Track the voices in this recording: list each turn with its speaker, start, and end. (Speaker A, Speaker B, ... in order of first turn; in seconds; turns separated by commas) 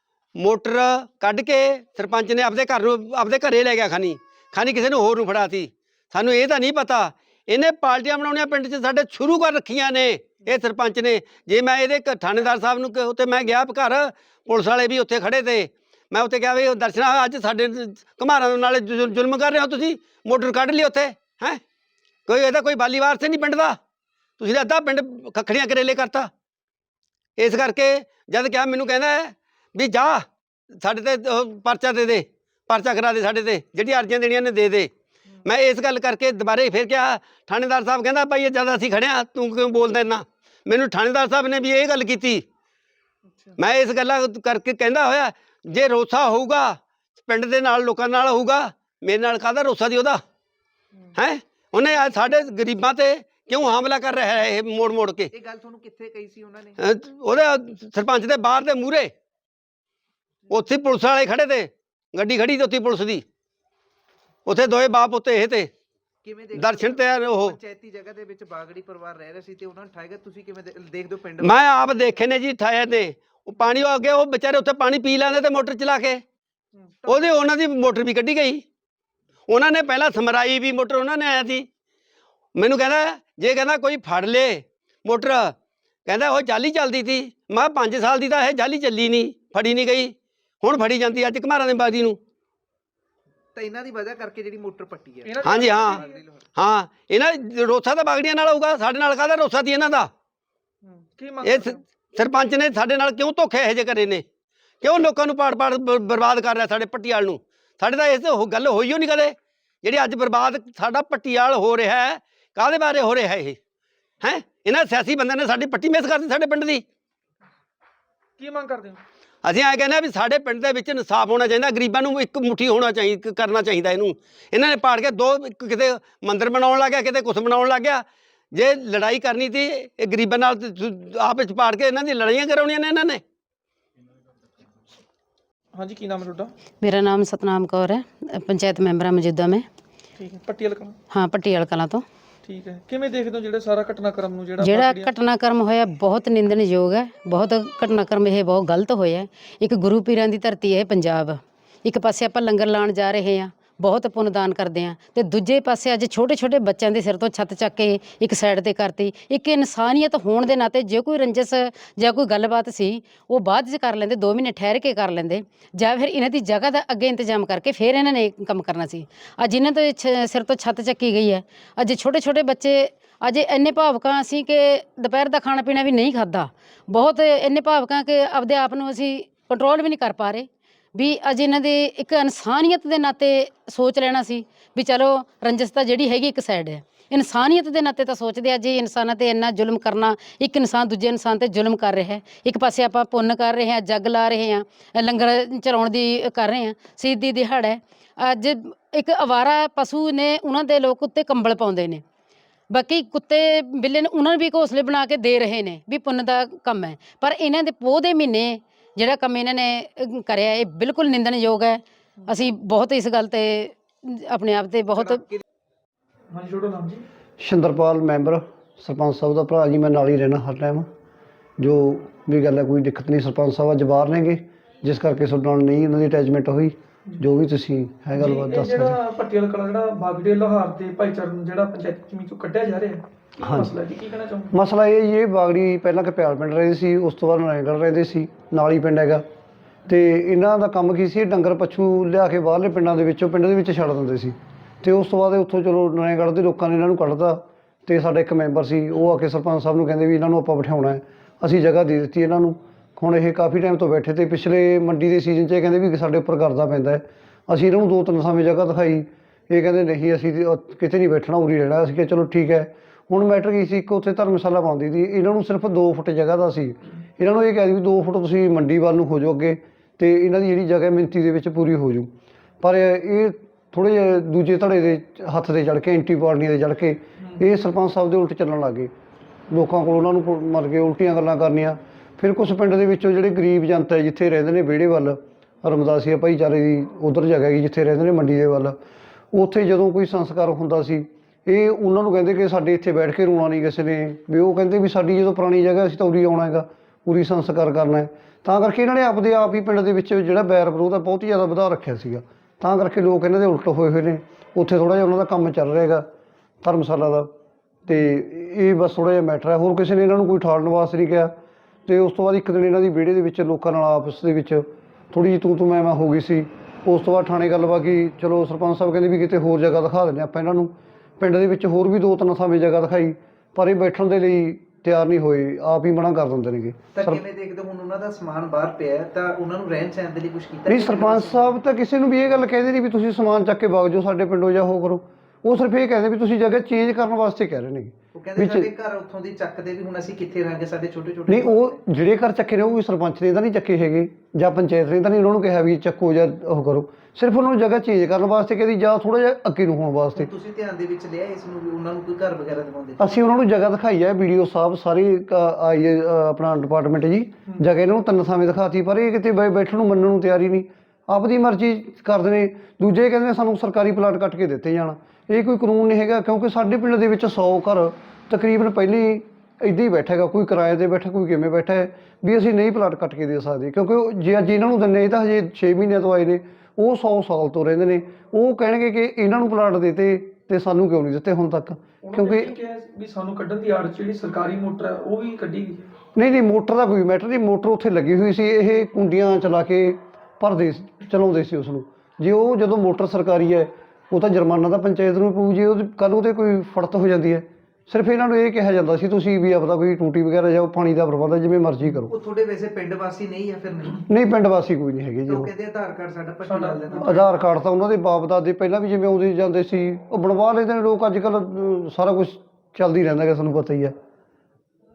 Speaker A: 0.4-21.6, Speaker A: 22.3-23.8, Speaker A: 24.4-26.3, Speaker A: 27.4-30.2, Speaker A: 30.8-34.9, Speaker A: 35.5-42.4, Speaker A: 43.6-50.2, Speaker A: 51.1-55.3, Speaker B: 55.3-56.8, Speaker A: 56.8-59.1, Speaker A: 60.5-63.2, Speaker A: 64.5-65.7, Speaker B: 66.2-71.8, Speaker A: 66.5-67.6, Speaker A: 71.4-76.2, Speaker B: 76.8-77.4, Speaker A: 77.1-78.6, Speaker A: 79.5-81.7, Speaker A: 82.5-85.5, Speaker A: 86.0-92.2, Speaker B: 93.5-96.4, Speaker C: 95.2-96.2, Speaker A: 95.4-96.0, Speaker A: 96.5-100.1, Speaker C: 100.8-101.8, Speaker A: 101.4-104.2, Speaker A: 104.8-113.6, Speaker A: 114.2-116.8, Speaker C: 118.4-119.0, Speaker A: 119.4-133.2, Speaker C: 135.7-136.5, Speaker D: 136.8-139.6, Speaker C: 140.2-141.0, Speaker D: 141.1-142.0, Speaker C: 142.4-145.1, Speaker D: 144.6-202.0, Speaker D: 202.7-215.2, Speaker C: 216.3-217.0, Speaker E: 217.4-220.9, Speaker E: 221.6-229.0, Speaker C: 228.1-234.5, Speaker E: 233.4-233.7, Speaker E: 234.5-239.2, Speaker E: 239.9-272.1, Speaker E: 272.6-278.9, Speaker E: 279.5-288.8, Speaker E: 289.3-306.0, Speaker E: 306.6-307.3, Speaker E: 307.9-311.3, Speaker E: 311.9-327.2, Speaker B: 326.9-331.6, Speaker E: 330.7-338.7, Speaker B: 338.1-341.8, Speaker E: 341.3-350.3, Speaker B: 350.1-353.2, Speaker E: 353.0-382.6, Speaker C: 382.0-385.9, Speaker E: 386.1-402.1, Speaker B: 402.1-404.0, Speaker E: 404.1-405.5, Speaker B: 405.3-407.3, Speaker C: 406.4-407.1, Speaker E: 407.0-413.9